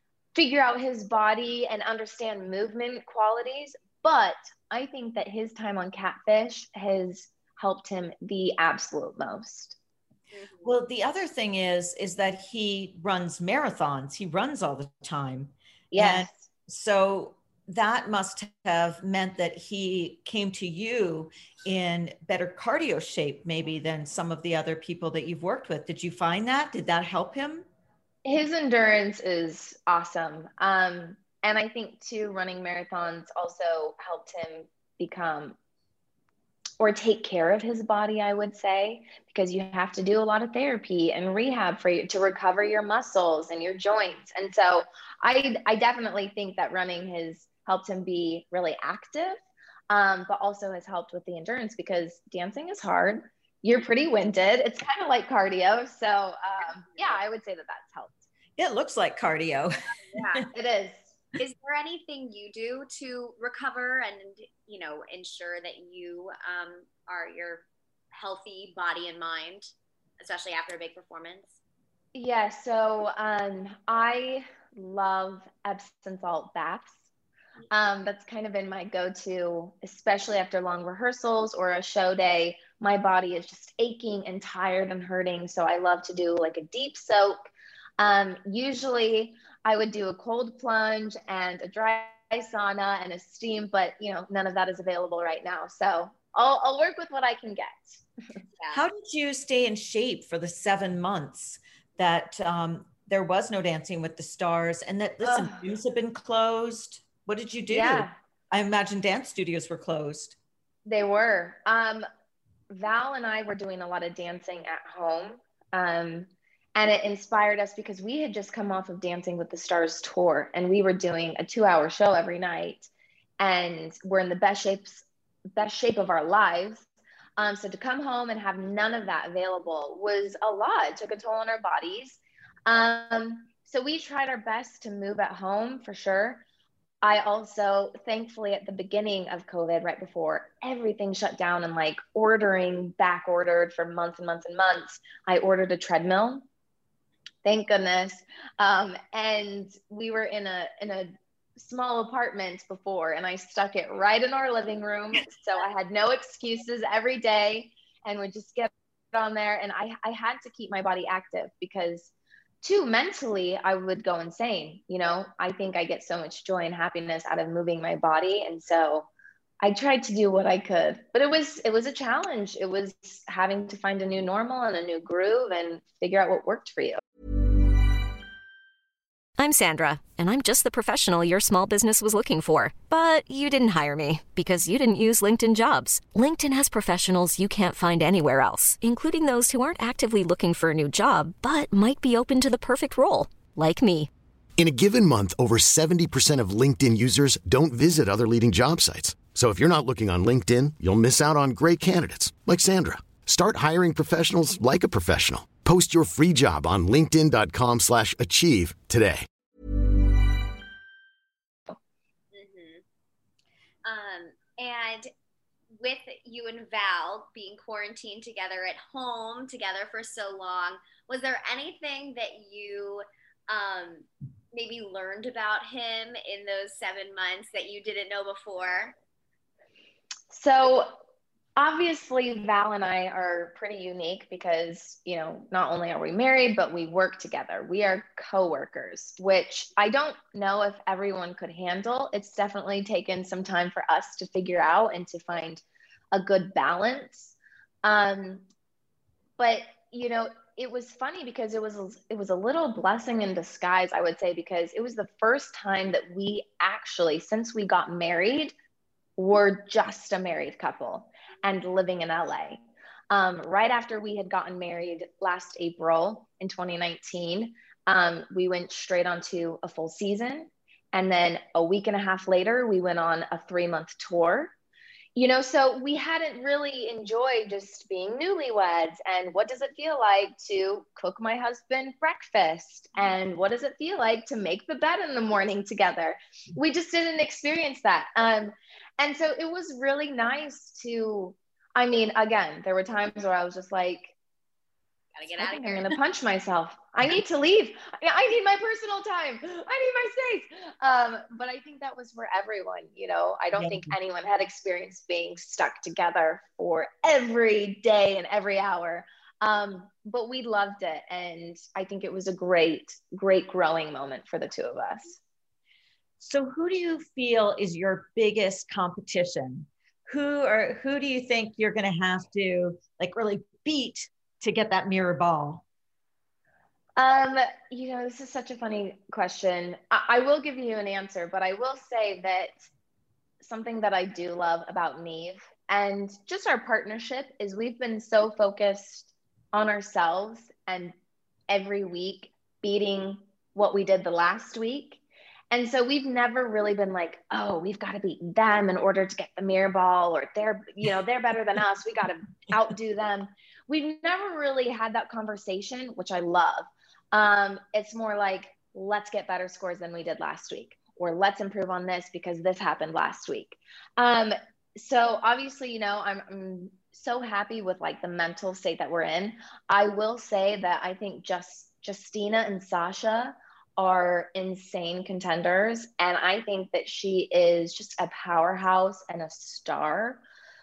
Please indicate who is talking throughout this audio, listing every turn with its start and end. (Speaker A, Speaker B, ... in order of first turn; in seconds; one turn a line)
Speaker A: 0.3-9.8
Speaker B: 10.3-10.7
Speaker C: 10.6-27.6
Speaker A: 15.9-16.4
Speaker A: 28.2-35.5
Speaker A: 36.8-58.2
Speaker C: 58.6-60.4
Speaker B: 60.1-60.5
Speaker A: 60.5-61.1
Speaker B: 61.4-71.6
Speaker A: 72.1-77.0
Speaker A: 77.7-87.4
Speaker A: 88.0-98.0
Speaker B: 98.6-98.8
Speaker C: 98.7-110.4
Speaker A: 105.2-105.6
Speaker A: 107.7-108.1
Speaker A: 110.8-112.0
Speaker A: 112.7-122.9
Speaker A: 123.4-126.8
Speaker A: 127.4-136.4
Speaker A: 137.0-146.4
Speaker A: 147.4-169.1
Speaker A: 169.6-177.0
Speaker D: 179.4-194.1
Speaker E: 194.6-209.2
Speaker B: 212.3-212.8
Speaker B: 213.8-215.1
Speaker B: 215.8-228.9
Speaker A: 230.3-230.9
Speaker A: 231.6-245.6
Speaker A: 246.1-248.4
Speaker A: 249.4-258.5
Speaker A: 259.2-274.5
Speaker A: 275.1-294.1
Speaker B: 295.1-295.9
Speaker A: 295.3-315.2
Speaker C: 303.6-303.9
Speaker C: 316.2-325.6
Speaker A: 326.9-332.7
Speaker A: 333.4-340.9
Speaker A: 341.5-380.2